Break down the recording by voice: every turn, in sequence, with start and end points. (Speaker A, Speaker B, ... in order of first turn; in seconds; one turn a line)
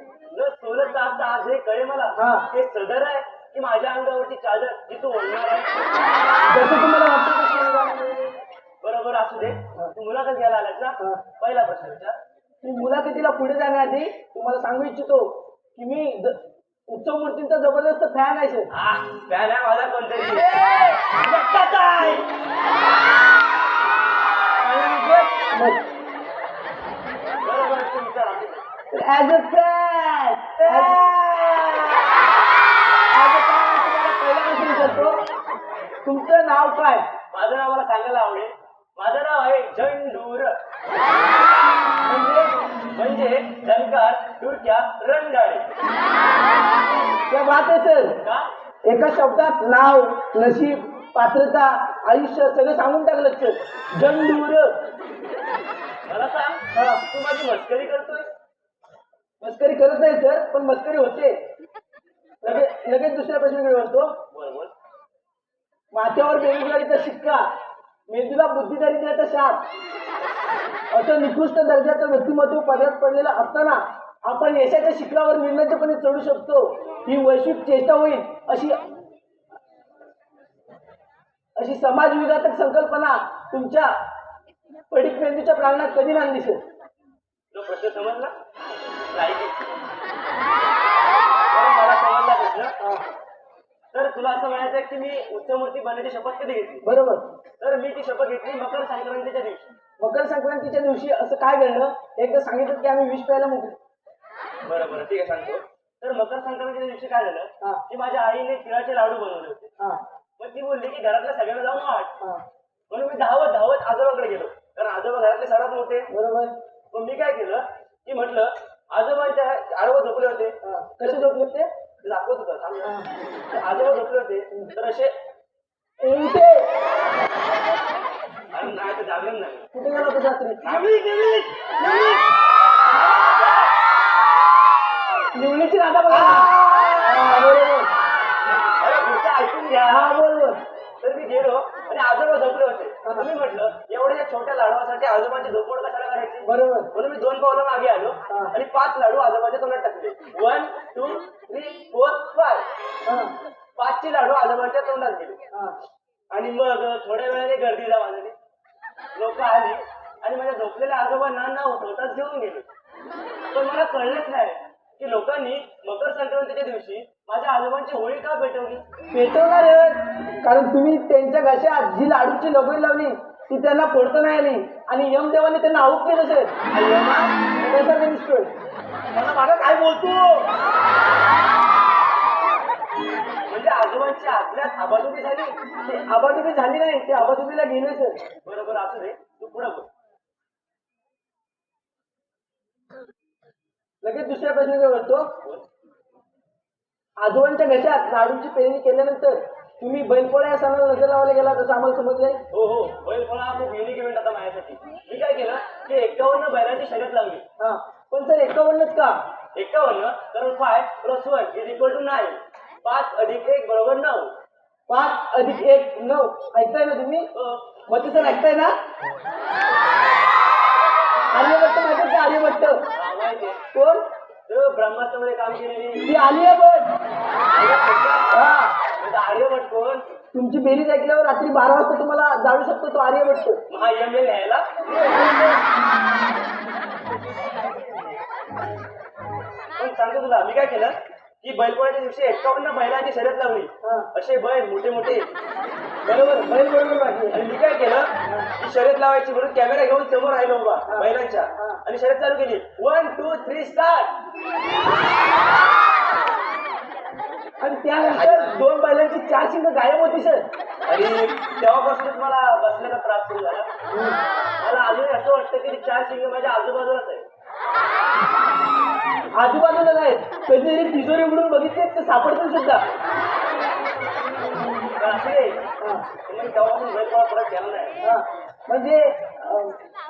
Speaker A: 0.3-5.9
Speaker B: 2.2-2.5
Speaker B: 6.5-8.3
Speaker A: 8.8-12.2
Speaker B: 12.6-18.7
Speaker A: 18.7-20.5
Speaker B: 20.4-22.2
Speaker B: 24.6-25.9
Speaker A: 27.4-28.6
Speaker B: 28.9-31.0
Speaker A: 30.6-32.0
Speaker B: 33.1-35.2
Speaker B: 36.0-37.0
Speaker A: 37.3-40.6
Speaker B: 42.0-42.6
Speaker A: 42.9-45.7
Speaker B: 47.3-48.2
Speaker A: 48.2-48.5
Speaker B: 48.9-54.8
Speaker A: 56.0-58.3
Speaker B: 56.7-57.0
Speaker B: 59.4-61.4
Speaker B: 62.4-64.2
Speaker A: 64.3-64.7
Speaker B: 65.9-67.4
Speaker B: 68.1-69.6
Speaker B: 70.9-78.8
Speaker B: 81.6-83.9
Speaker B: 84.9-86.6
Speaker A: 87.5-88.3
Speaker A: 89.1-89.7
Speaker A: 91.5-92.7
Speaker A: 93.9-96.8
Speaker B: 96.8-97.3
Speaker A: 97.6-99.7
Speaker B: 100.0-103.8
Speaker A: 104.6-109.7
Speaker A: 110.4-112.2
Speaker A: 112.9-116.1
Speaker B: 116.1-116.5
Speaker A: 116.9-121.2
Speaker B: 120.6-121.7
Speaker A: 122.0-122.9
Speaker B: 122.8-123.1
Speaker A: 123.5-125.2
Speaker B: 126.0-126.8
Speaker A: 128.5-129.7
Speaker B: 129.7-130.7
Speaker A: 130.6-132.2
Speaker A: 133.0-133.7
Speaker B: 135.3-136.5
Speaker A: 136.1-137.3
Speaker B: 137.0-137.9
Speaker A: 138.8-140.1
Speaker B: 139.9-140.6
Speaker A: 141.0-152.7
Speaker B: 146.4-146.9
Speaker B: 148.3-148.5
Speaker B: 153.0-153.3
Speaker A: 153.8-155.4
Speaker A: 156.3-158.3
Speaker A: 159.2-162.7
Speaker A: 163.5-168.8
Speaker B: 169.1-176.7
Speaker A: 176.7-177.3
Speaker B: 177.4-178.5
Speaker A: 179.1-180.5
Speaker A: 183.5-185.6
Speaker B: 185.8-188.2
Speaker A: 188.4-189.9
Speaker B: 194.0-195.3
Speaker B: 197.2-202.4
Speaker A: 202.5-207.4
Speaker B: 207.6-209.2
Speaker A: 209.5-214.3
Speaker B: 214.9-217.3
Speaker A: 217.3-217.7
Speaker B: 217.9-218.7
Speaker B: 221.3-222.9
Speaker A: 223.0-223.6
Speaker B: 223.7-224.0
Speaker A: 224.5-226.1
Speaker B: 226.0-227.0
Speaker A: 227.5-228.3
Speaker B: 228.3-228.8
Speaker A: 229.0-230.0
Speaker B: 230.3-233.6
Speaker A: 233.7-235.6
Speaker A: 237.5-238.2
Speaker A: 239.8-245.3
Speaker B: 243.8-244.1
Speaker B: 246.0-247.4
Speaker A: 247.3-254.2
Speaker B: 248.2-248.5
Speaker B: 250.9-251.8
Speaker B: 257.6-260.4
Speaker A: 258.0-258.5
Speaker A: 260.9-263.7
Speaker B: 263.9-264.2
Speaker A: 264.6-267.2
Speaker B: 269.4-272.9
Speaker A: 275.0-275.6
Speaker A: 276.3-278.0
Speaker B: 278.0-279.8